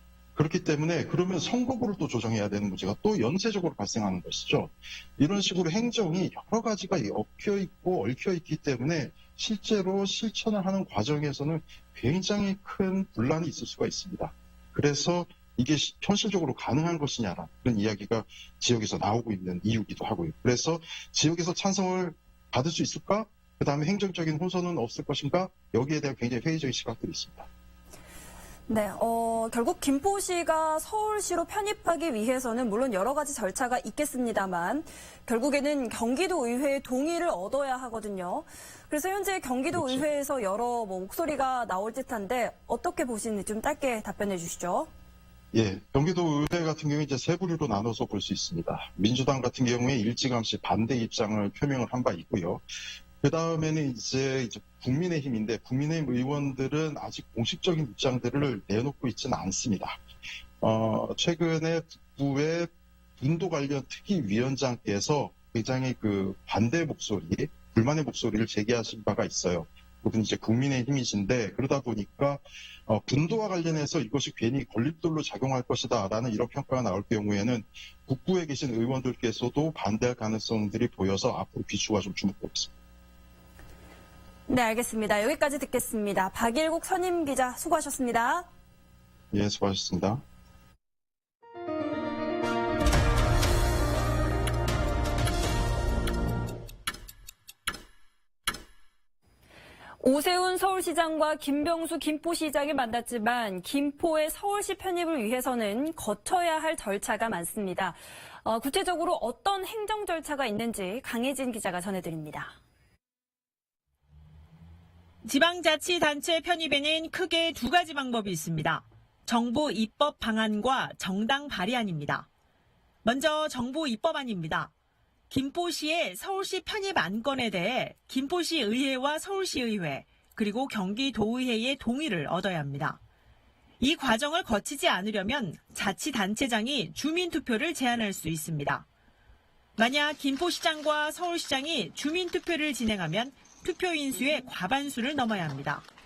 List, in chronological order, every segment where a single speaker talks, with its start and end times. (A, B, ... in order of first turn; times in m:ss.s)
0:00.4-0:27.5 A
0:28.7-0:44.9 B
0:39.7-0:40.0 A
0:45.5-0:52.6 A
0:53.2-1:00.0 A
1:00.6-1:22.7 A
1:24.5-1:28.5 B
1:29.3-1:30.2 A
1:40.0-1:52.5 B
1:55.2-2:02.3 C
2:03.0-2:04.7 C
2:05.3-2:13.0 C
2:13.8-2:18.8 C
2:19.8-2:25.8 C